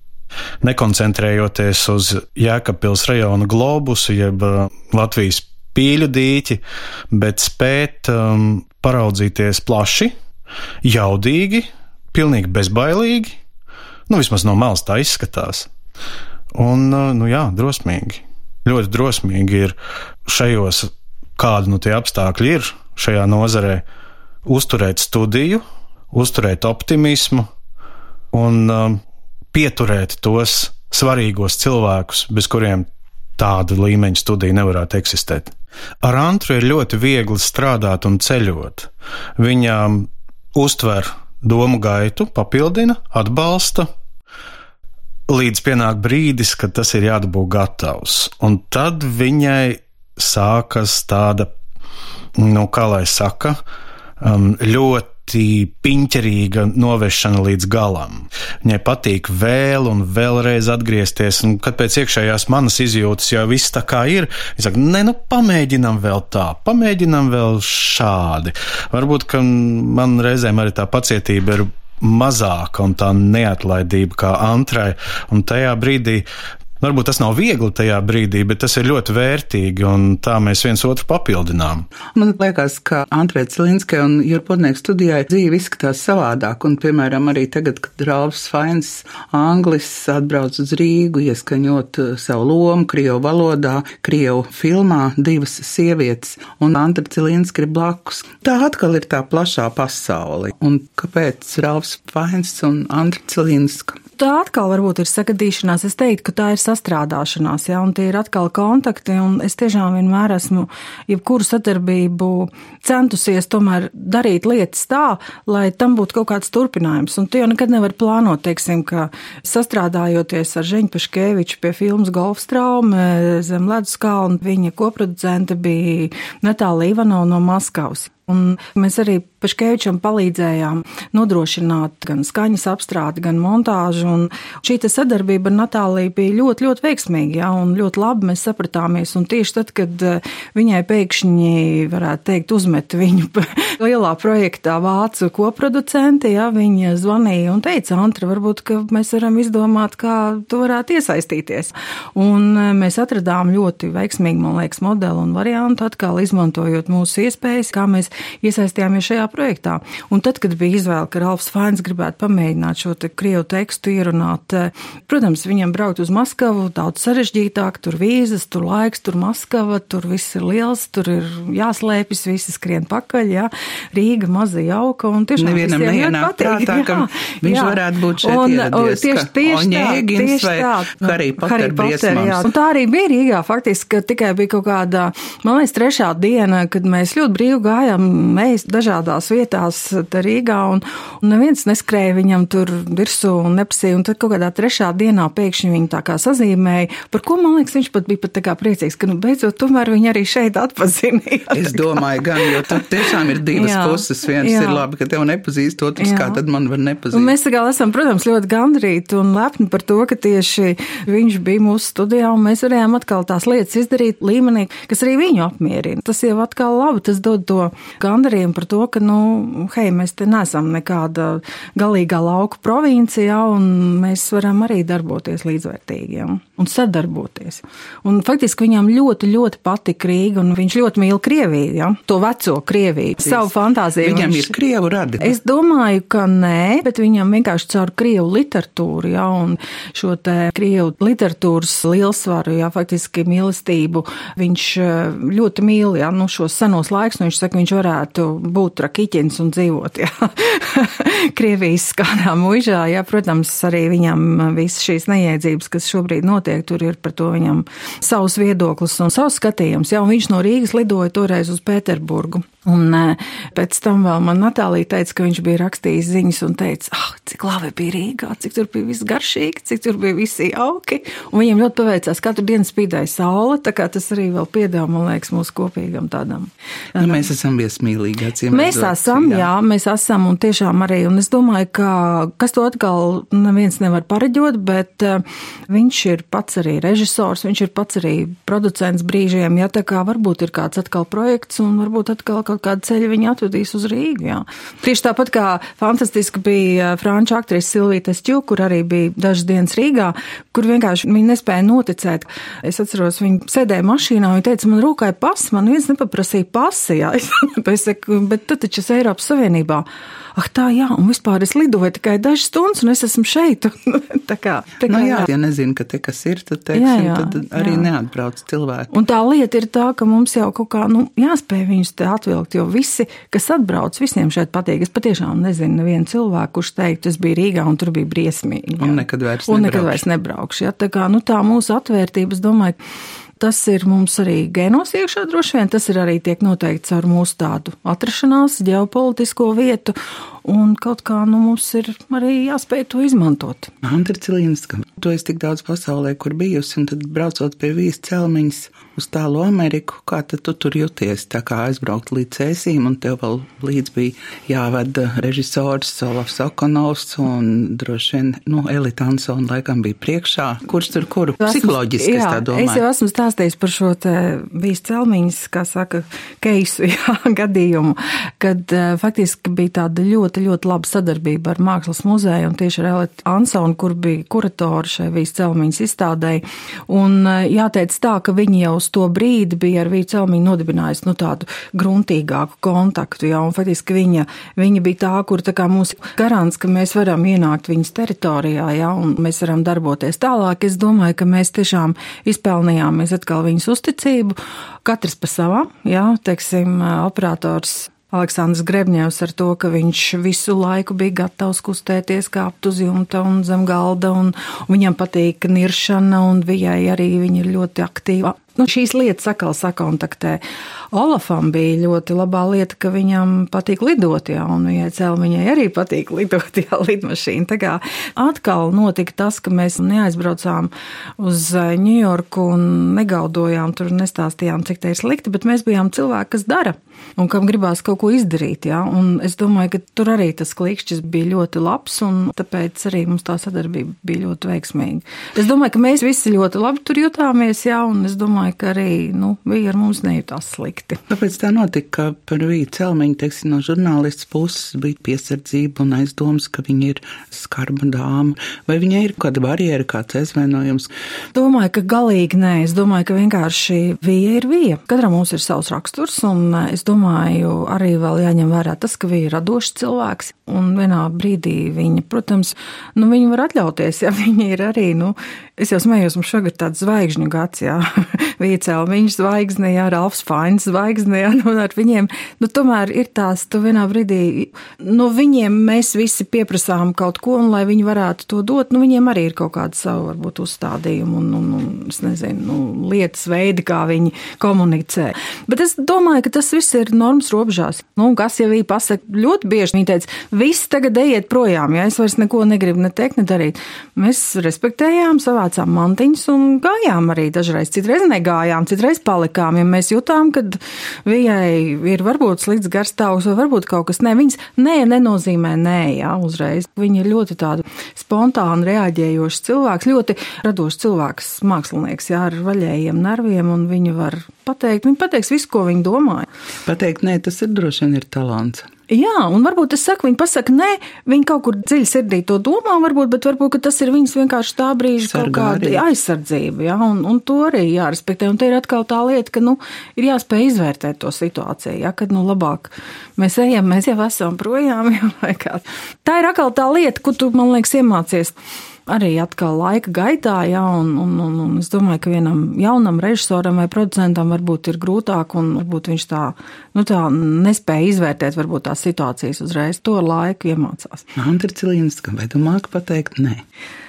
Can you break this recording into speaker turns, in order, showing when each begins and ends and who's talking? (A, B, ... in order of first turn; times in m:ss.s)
0:00.6-0:10.1 A
0:10.8-0:13.3 A
0:14.1-0:15.7 A
0:16.5-0:19.7 A
0:20.2-0:23.8 A
0:24.4-0:27.5 A
0:28.3-0:29.0 A
0:29.5-0:32.8 A
0:33.4-0:43.9 A
0:45.3-0:51.5 A
0:52.4-0:53.6 A
0:54.2-1:16.2 A
1:16.8-1:21.8 A
1:22.1-1:44.0 B
1:44.2-3:22.8 C
2:55.4-3:02.5 B
3:21.5-3:27.3 B
3:23.5-3:24.8 C
3:26.0-3:26.4 C
3:27.1-3:54.5 C
3:53.2-3:53.5 B
3:54.0-3:55.4 B
3:55.2-4:37.2 C
4:37.0-4:39.5 B
4:38.5-5:15.3 C
5:14.8-5:18.9 B
5:16.7-5:17.9 C
5:18.9-5:32.8 C
5:28.8-5:30.0 B
5:33.4-5:43.7 C
5:43.8-6:02.8 B
6:01.4-6:50.4 C
6:50.9-7:21.0 C
7:21.1-7:30.9 B
7:31.3-8:36.3 C
8:36.6-8:38.7 B
8:38.9-8:58.4 C
8:45.0-8:45.8 B
8:58.9-9:11.1 C
9:11.2-9:13.4 B